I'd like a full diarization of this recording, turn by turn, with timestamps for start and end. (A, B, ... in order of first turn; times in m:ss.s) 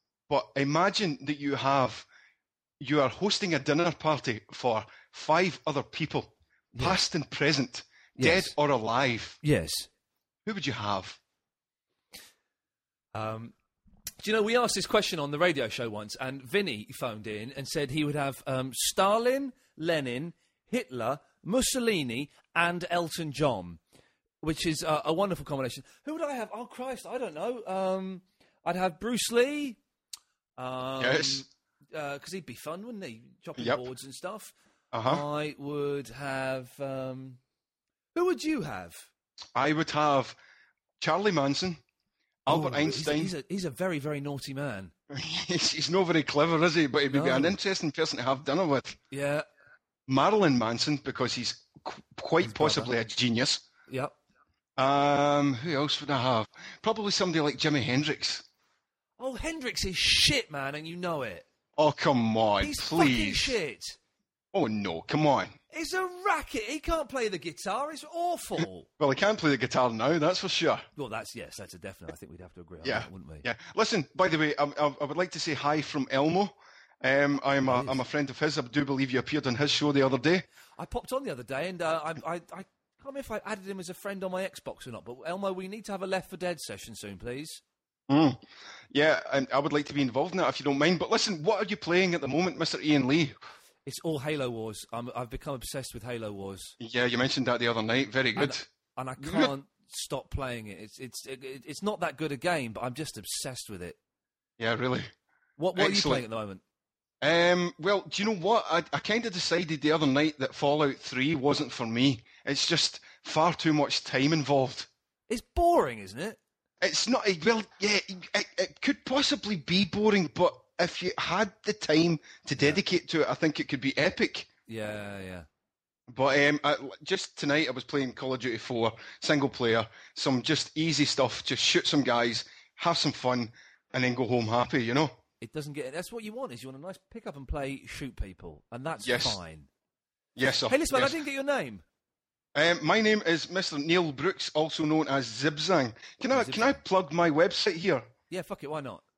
0:00.3-0:02.0 A
0:02.8-0:09.4 A
0:08.2-0:08.5 B
0:09.4-0:09.9 B
0:10.4-0:11.2 A
0:13.1-0:13.5 B
0:14.2-0:23.8 B
0:24.4-0:29.8 B
0:30.6-0:34.5 B
0:31.0-0:31.4 A
0:33.6-0:33.8 A
0:34.9-0:35.2 A
0:35.0-0:37.4 B
0:38.1-0:39.1 B
0:39.6-0:40.4 A
0:41.0-0:41.8 A
0:42.4-0:43.3 A
0:42.5-0:44.9 B
0:45.1-0:49.0 A
0:47.1-0:47.6 B
0:49.1-0:49.4 B
0:50.1-0:53.6 A
0:52.4-0:52.9 B
0:53.9-0:54.1 B
0:54.8-0:58.4 A
0:59.2-1:01.4 B
1:01.8-1:03.6 A
1:02.6-1:04.0 B
1:04.5-1:05.5 A
1:05.7-1:08.9 B
1:09.0-1:10.8 A
1:11.0-1:13.4 B
1:12.8-1:20.4 A
1:17.6-1:18.0 B
1:20.8-1:27.6 B
1:28.1-1:28.4 A
1:28.9-1:33.3 A
1:33.8-1:36.8 B
1:36.8-1:39.5 A
1:38.4-1:44.0 B
1:44.6-1:45.1 A
1:45.6-1:46.6 B
1:45.7-1:46.2 A
1:47.2-1:54.9 A
1:55.3-1:56.4 B
1:56.8-2:04.5 A
2:04.7-2:05.5 B
2:06.1-2:15.2 A
2:15.4-2:19.7 B
2:19.0-2:19.4 A
2:20.4-2:21.2 A
2:20.7-2:21.8 B
2:22.5-2:28.1 A
2:26.3-2:26.8 B
2:28.3-2:29.0 B